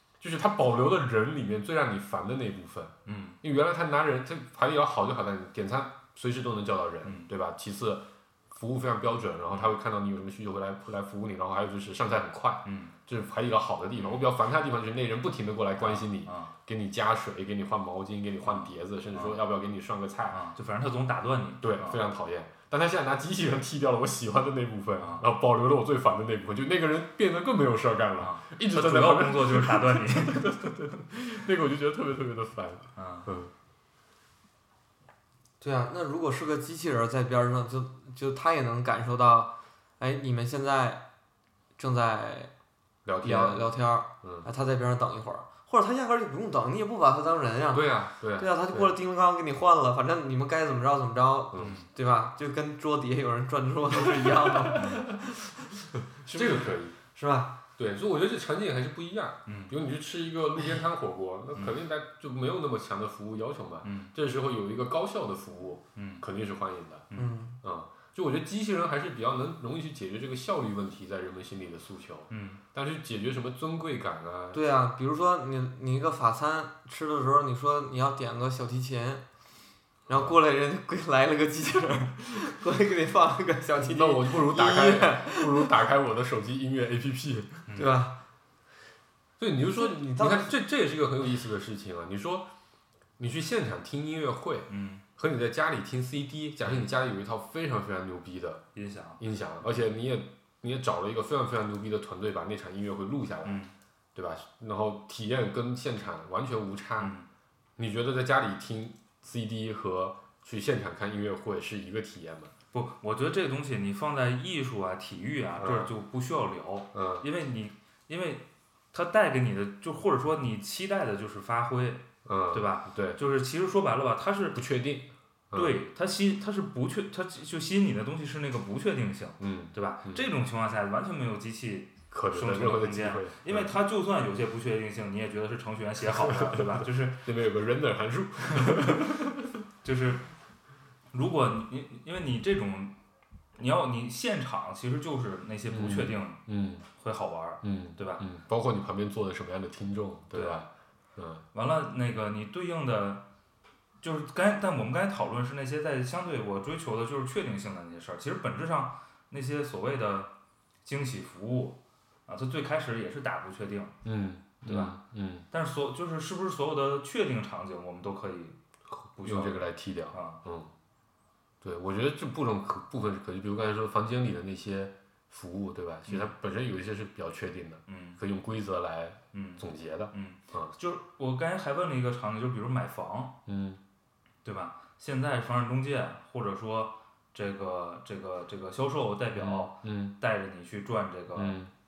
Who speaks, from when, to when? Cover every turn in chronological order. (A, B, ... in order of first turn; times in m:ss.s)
0:00.2-0:20.4 A
0:03.0-0:03.4 B
0:07.0-0:07.3 B
0:12.6-0:12.9 B
0:14.0-0:14.3 B
0:15.8-0:16.5 B
0:18.4-0:19.4 B
0:20.3-0:22.0 B
0:21.6-0:33.5 A
0:25.0-0:25.2 B
0:28.2-0:30.5 B
0:33.0-0:33.3 B
0:35.6-0:41.0 C
0:41.8-0:42.5 C
0:43.0-0:43.7 A
0:43.2-0:55.6 C
0:44.2-0:44.5 A
0:47.7-0:49.0 A
0:51.5-0:51.8 A
0:51.6-0:51.9 B
0:54.1-0:54.9 A
0:56.1-0:56.9 A
0:56.3-0:57.5 C
0:57.8-1:07.1 A
0:59.4-0:59.7 B
1:03.8-1:04.1 B
1:06.0-1:06.2 B
1:07.2-1:07.6 C
1:07.6-1:14.6 A
1:12.3-1:12.6 B
1:14.5-1:19.2 C
1:20.1-1:25.7 C
1:20.1-1:20.4 A
1:23.8-1:27.7 A
1:27.7-1:27.9 B
1:27.7-1:28.1 C
1:29.4-1:32.5 A
1:29.7-1:30.5 C
1:33.2-1:38.6 A
1:34.7-1:35.0 B
1:38.7-1:39.2 B
1:39.2-1:43.6 A
1:43.4-1:43.7 B
1:44.1-1:47.1 A
1:47.0-1:47.2 B
1:47.8-1:52.5 A
1:52.7-2:04.6 B
1:55.6-1:55.9 A
1:56.9-1:57.3 A
2:02.2-2:03.2 A
2:04.5-2:05.8 A
2:05.5-2:17.3 B
2:09.4-2:10.3 A
2:12.1-2:13.7 A
2:16.1-2:19.6 A
2:18.5-2:19.2 B
2:19.8-2:20.3 B
2:21.1-2:22.9 B
2:23.6-2:26.4 B
2:25.7-2:26.8 A
2:27.0-2:28.2 B
2:27.6-2:31.4 A
2:30.3-2:30.6 B
2:31.5-2:33.2 B
2:34.0-2:40.3 B
2:40.8-2:43.9 B
2:44.0-2:45.4 A
2:44.6-2:45.0 B
2:45.5-2:48.6 B
2:49.1-2:50.4 B
2:49.2-2:50.7 A
2:51.6-3:00.7 A
2:57.9-2:58.2 B
2:59.3-3:03.3 B
3:03.4-3:03.8 A
3:04.4-3:11.6 B
3:09.3-3:10.1 A
3:11.3-3:11.7 A